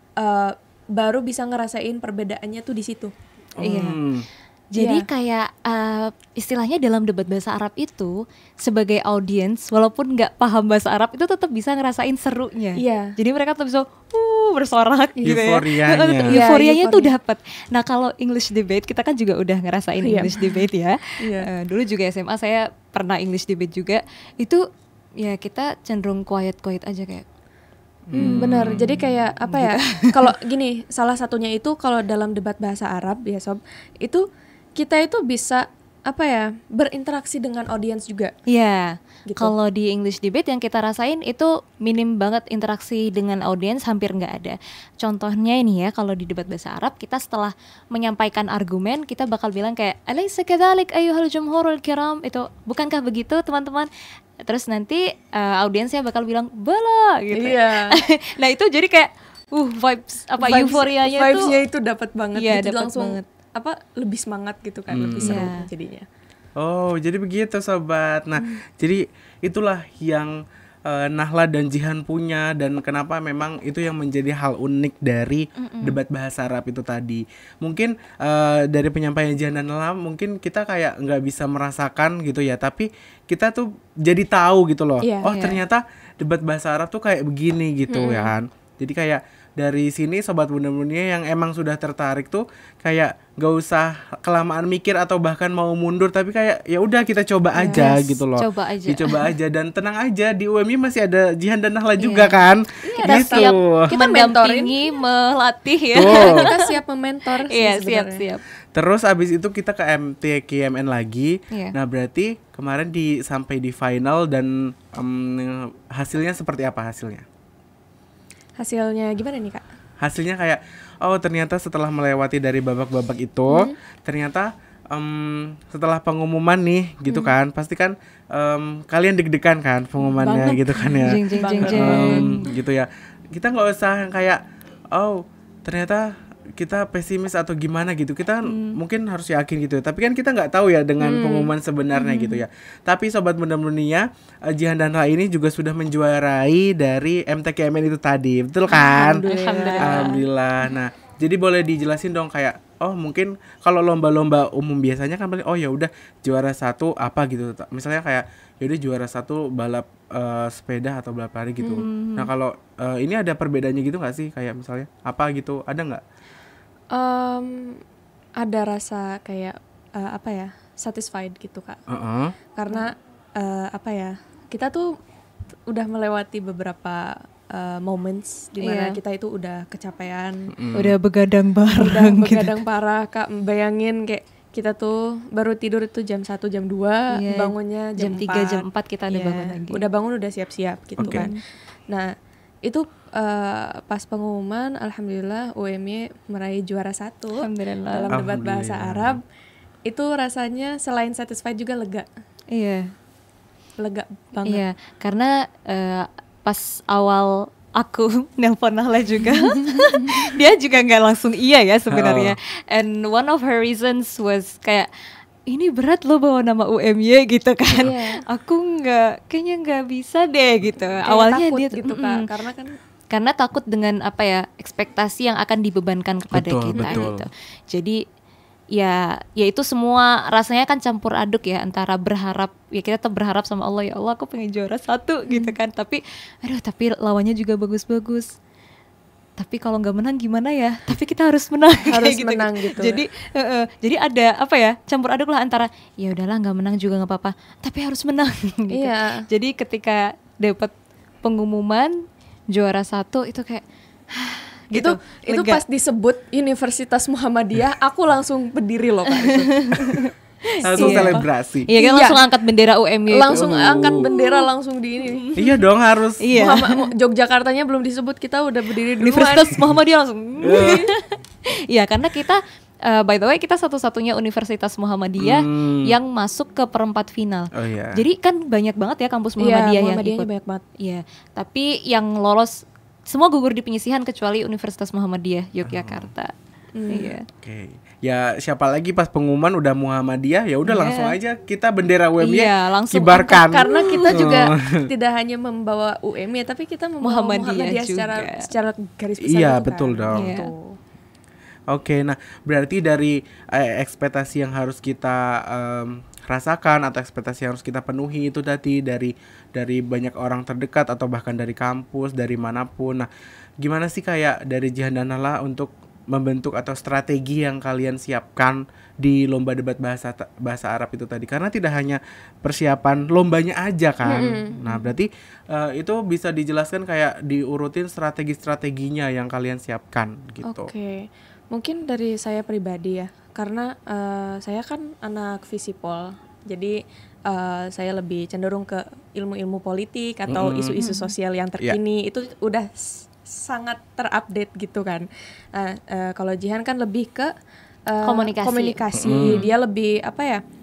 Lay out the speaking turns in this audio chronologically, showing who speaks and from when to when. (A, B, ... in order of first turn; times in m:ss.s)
0:00.2-0:03.1 A
0:03.6-0:04.3 B
0:03.6-0:04.0 C
0:04.7-0:24.6 C
0:04.8-0:05.1 A
0:12.8-0:13.2 A
0:15.3-0:16.3 B
0:16.3-0:17.1 A
0:20.0-0:20.7 A
0:21.2-0:21.5 A
0:25.2-0:27.2 C
0:28.1-0:29.0 B
0:28.1-0:34.2 A
0:28.2-0:30.3 C
0:34.8-0:38.3 A
0:38.5-0:53.9 C
0:39.3-0:39.5 A
0:54.4-1:01.6 C
0:57.3-0:58.0 A
1:00.4-1:06.1 A
1:02.4-1:03.2 C
1:04.9-1:05.5 B
1:05.2-1:05.7 C
1:06.6-1:43.9 B
1:15.6-1:16.0 C
1:25.0-1:25.4 A
1:25.2-1:25.6 C
1:27.9-1:28.3 A
1:37.6-1:37.9 A
1:37.7-1:39.2 C
1:42.0-1:42.4 C
1:42.8-1:44.8 A
1:43.0-1:46.7 C
1:45.9-1:46.5 B
1:46.0-1:48.2 A
1:47.5-1:48.4 C
1:48.7-1:57.2 B
1:51.5-1:51.8 C
1:58.6-1:59.6 A
2:00.0-2:29.2 B
2:10.1-2:12.5 A
2:11.0-2:12.4 C
2:18.4-2:18.8 C
2:21.0-2:21.5 A
2:21.9-2:22.4 C
2:28.7-2:30.1 A
2:28.7-2:30.2 C
2:29.8-2:46.0 B
2:41.7-2:42.3 C
2:46.9-2:47.8 A
2:48.4-2:51.8 A
2:51.9-2:52.4 B
2:52.6-2:55.0 A
2:55.7-3:00.5 A
2:58.6-2:59.0 C
3:00.5-3:01.0 B
3:00.7-3:02.6 C
3:01.8-3:11.4 A
3:07.1-3:09.8 C
3:11.0-3:11.3 B
3:11.0-3:11.4 C
3:12.6-3:19.2 A
3:17.4-3:18.1 C
3:18.1-3:19.2 B
3:19.9-3:22.1 A
3:22.5-3:22.9 C
3:23.8-3:24.6 A
3:24.5-3:34.9 C
3:29.4-3:30.3 A
3:31.9-3:32.4 B
3:35.5-3:42.2 C
3:37.8-3:38.2 A
3:41.1-3:42.8 A
3:43.1-3:48.0 C
3:46.3-3:47.3 B
3:46.8-3:47.1 A
3:48.8-3:58.4 C
3:55.3-3:55.6 A
3:59.4-4:12.0 C
4:01.9-4:03.0 A
4:08.7-4:09.2 A
4:12.5-4:15.6 C
4:14.8-4:20.0 A
4:19.2-4:24.5 C
4:20.6-4:21.7 B
4:20.7-4:21.3 A
4:21.8-4:22.2 A
4:23.1-4:25.3 A
4:23.4-4:24.1 B
4:25.4-4:26.3 B
4:26.2-4:26.9 C
4:26.3-4:29.6 A
4:29.0-4:31.2 C
4:30.4-4:30.9 B
4:31.7-4:40.3 C
4:35.2-4:35.9 B
4:37.5-4:38.0 B
4:39.4-4:40.6 A
4:40.8-4:46.3 C
4:45.6-4:46.1 B
4:46.7-4:47.2 A
4:46.9-4:47.2 C
4:47.4-4:54.9 B
4:50.7-4:51.2 C
4:52.2-4:54.2 C
4:53.4-5:00.8 A
4:57.0-4:58.5 C
4:59.2-5:00.4 B
5:00.1-5:00.5 C
5:01.7-5:13.1 B
5:13.6-5:30.7 B
5:24.0-5:24.8 A
5:30.4-5:47.3 A
5:40.3-5:40.8 B
5:40.8-5:41.1 C
5:47.9-5:50.4 A
5:48.0-5:49.5 C
5:49.0-5:49.4 B